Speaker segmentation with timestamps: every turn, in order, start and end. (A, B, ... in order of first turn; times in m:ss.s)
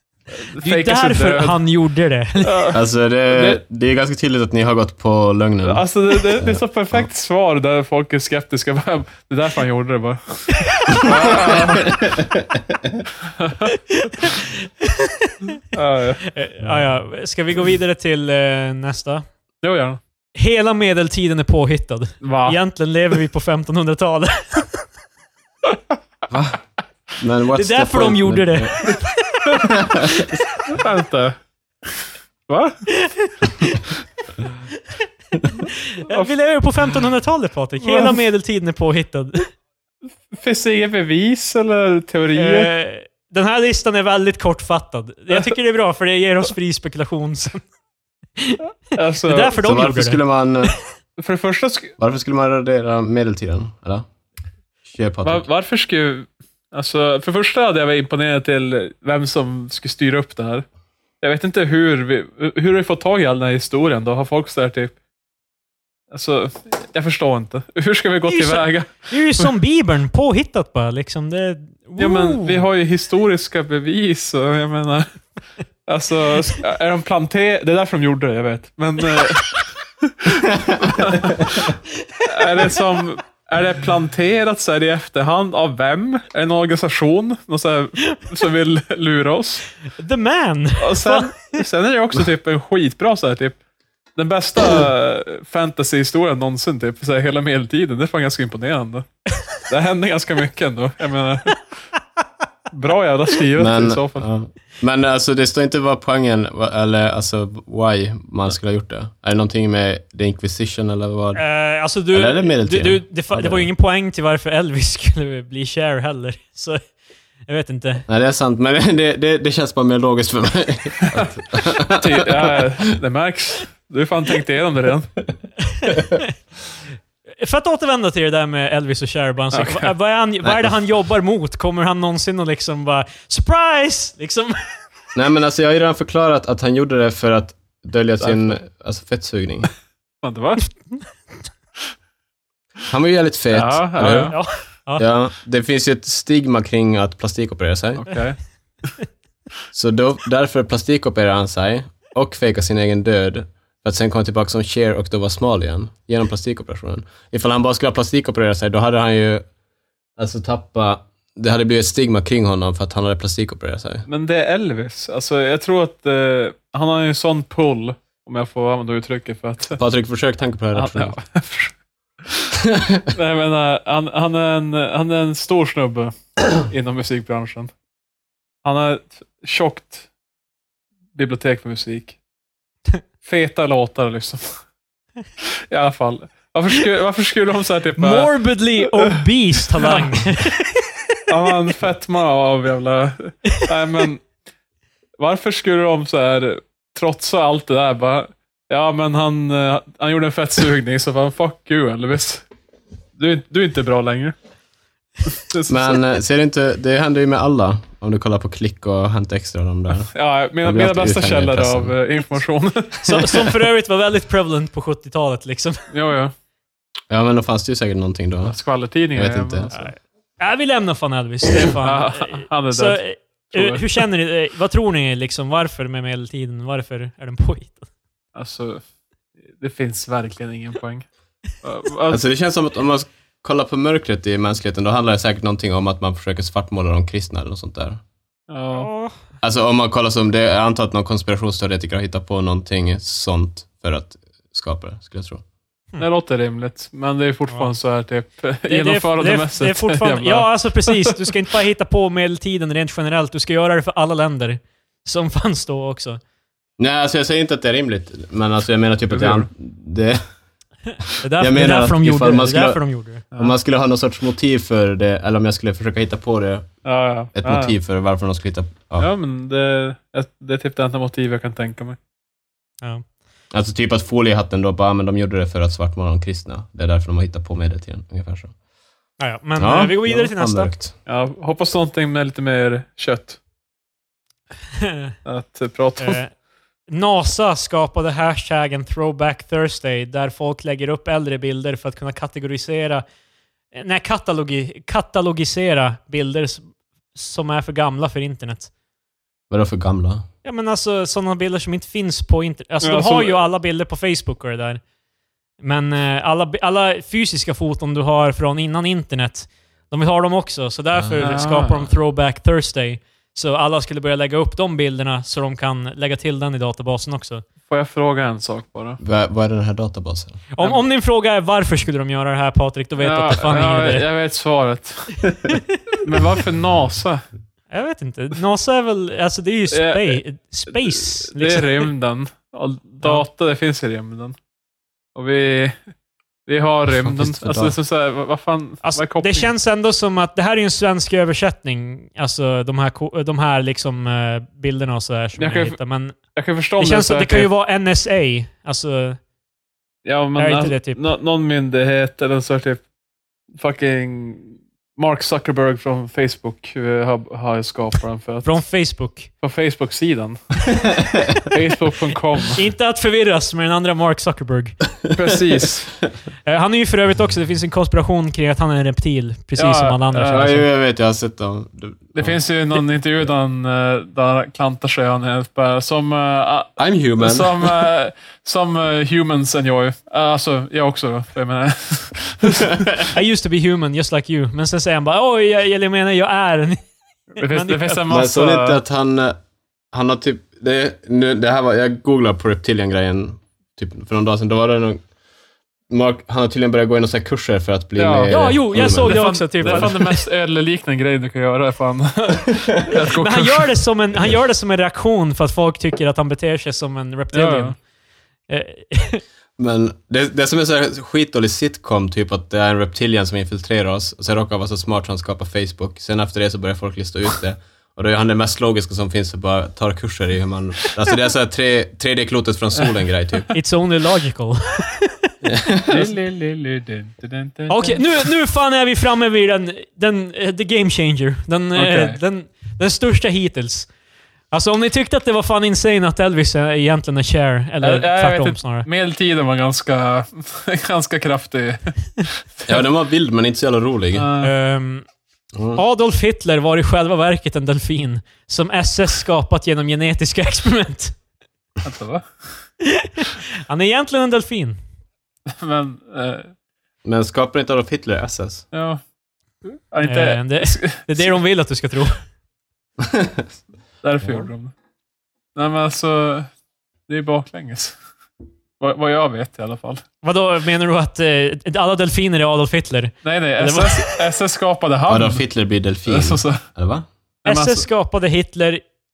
0:00.3-0:01.6 A
0:00.6-0:02.7 B
0:02.4-0:03.6 A
0:02.7-0:07.1 C
0:05.6-0:12.0 A
0:10.6-0:11.4 B
0:11.2-0:13.0 C
0:13.2-0:13.7 A
0:13.7-0:15.6 B
0:15.7-0:16.2 A
0:16.2-0:19.2 B
0:19.6-0:20.0 A
0:20.3-0:24.8 B
0:22.2-0:22.6 A
0:26.3-0:26.6 C
0:27.2-0:29.0 C
0:27.5-0:30.2 B
0:29.6-0:30.4 C
0:30.7-0:31.4 A
0:32.5-0:32.8 A
0:32.9-0:33.8 B
0:35.6-0:39.5 B
0:37.8-0:38.2 A
0:40.3-0:42.7 A
0:42.4-0:47.6 B
0:48.9-0:49.6 A
0:49.2-0:50.7 B
0:49.6-0:50.7 C
0:51.2-0:51.9 A
0:52.0-0:54.1 C
0:54.8-0:55.4 C
0:55.2-1:00.6 A
1:01.2-1:04.9 A
1:06.1-1:09.5 A
1:08.3-1:12.6 B
1:12.0-1:15.1 A
1:15.9-1:21.7 A
1:22.2-1:29.6 A
1:30.0-1:31.3 B
1:30.8-1:33.6 A
1:34.2-1:39.0 A
1:39.7-1:41.6 A
1:42.7-1:44.3 A
1:43.5-1:51.4 C
1:51.3-1:56.8 B
1:52.1-1:53.7 C
1:57.5-1:58.0 B
1:58.1-2:02.6 C
2:01.9-2:05.1 A
2:05.7-2:06.3 B
2:07.4-2:14.6 B
2:09.5-2:09.9 A
2:10.4-2:10.8 C
2:15.1-2:19.7 C
2:18.2-2:18.6 A
2:20.2-2:20.6 A
2:22.9-2:24.3 C
2:23.5-2:24.4 A
2:24.3-2:25.0 B
2:25.0-2:28.0 C
2:28.0-2:28.4 A
2:29.7-2:39.4 C
2:40.2-2:44.0 C
2:44.1-2:49.8 A
2:49.8-2:51.2 C
2:50.7-2:51.7 A
2:52.2-2:52.5 A
2:52.6-2:53.1 C
2:53.1-2:57.7 A
2:58.6-3:00.1 A
3:01.1-3:02.2 A
3:03.2-3:04.6 A
3:05.4-3:08.3 A
3:08.0-3:10.8 B
3:09.8-3:10.2 A
3:11.3-3:14.2 A
3:15.2-3:22.4 A
3:23.2-3:24.3 A
3:25.3-3:26.0 A
3:25.7-3:30.1 C
3:30.1-3:33.6 A
3:30.6-3:31.9 C
3:33.0-3:35.8 B
3:35.9-3:36.3 A
3:37.1-3:38.6 C
3:38.4-3:39.9 A
3:39.1-3:39.7 C
3:39.7-3:47.8 B
3:41.6-3:44.0 A
3:48.3-3:48.8 A
3:49.6-3:51.0 A
3:51.6-3:52.2 A
3:52.1-3:58.0 C
3:58.5-3:58.9 A
3:58.7-3:59.2 B
3:59.4-4:05.4 C
4:06.0-4:11.3 A
4:08.7-4:16.2 B
4:16.8-4:20.2 C
4:19.1-4:19.5 A
4:21.1-4:22.8 C
4:21.2-4:23.2 B
4:23.3-4:26.7 C
4:26.8-4:27.7 A
4:27.4-4:29.1 C
4:29.0-4:32.0 A
4:33.5-4:38.5 C
4:39.2-4:40.7 B
4:39.6-4:40.9 C
4:41.0-4:43.4 A
4:44.8-4:45.1 B
4:45.2-4:46.2 A
4:46.0-4:46.3 B
4:46.9-4:53.0 B
4:53.7-4:58.7 B
4:59.5-5:00.2 C
5:00.4-5:04.8 B
5:02.8-5:03.4 A
5:05.6-5:17.4 B
5:10.9-5:11.2 C
5:11.2-5:11.9 A
5:17.7-5:19.0 A
5:19.0-5:20.4 C
5:20.5-5:24.0 B
5:23.0-5:25.4 A
5:25.5-5:25.9 B
5:26.0-5:27.2 A
5:27.7-5:31.9 B
5:29.7-5:34.3 A
5:35.1-5:35.8 A
5:36.5-5:39.5 A
5:36.9-5:37.8 C
5:38.8-5:46.2 B
5:45.4-5:45.8 A
5:46.3-5:47.5 A
5:46.8-5:49.2 B
5:50.0-5:52.8 A
5:50.4-5:51.0 B
5:53.6-5:58.6 A
5:58.4-5:59.3 B
5:59.4-6:00.4 A
6:00.9-6:01.3 C
6:01.4-6:02.6 A
6:02.5-6:04.8 B
6:05.1-6:05.9 A
6:06.4-6:10.6 B
6:09.6-6:10.5 A
6:10.2-6:12.4 C
6:12.1-6:22.8 A
6:16.8-6:17.9 C
6:23.1-6:26.8 B
6:27.4-6:28.0 B
6:27.4-6:28.8 A
6:28.1-6:29.4 C
6:29.9-6:35.0 C
6:35.9-6:39.9 C
6:38.0-6:43.7 A
6:38.2-6:40.2 B
6:43.2-6:47.8 B
6:47.3-6:47.8 A
6:48.5-6:49.2 B
6:49.6-7:03.5 C
7:03.5-7:05.3 B
7:05.4-7:06.1 C
7:05.9-7:08.3 A
7:07.7-7:13.9 B
7:11.7-7:12.2 A
7:14.5-7:18.9 B
7:17.8-7:22.7 A
7:22.7-7:24.2 C
7:24.1-7:24.5 A
7:24.4-7:25.0 B
7:25.5-7:25.8 C
7:25.7-7:31.2 B
7:31.8-7:32.3 A
7:32.8-7:34.8 B
7:35.5-7:36.5 A
7:37.0-7:38.6 C
7:38.7-7:39.0 A
7:39.6-7:41.3 A
7:40.0-7:42.2 B
7:43.0-7:43.4 C
7:44.0-7:44.7 A
7:45.6-7:46.5 A
7:47.1-7:48.0 A
7:48.8-7:50.0 A
7:50.2-7:54.2 B
7:53.2-7:55.4 A
7:55.1-7:57.0 C
7:56.1-7:56.6 A
7:57.4-7:57.8 A
7:57.4-7:58.8 B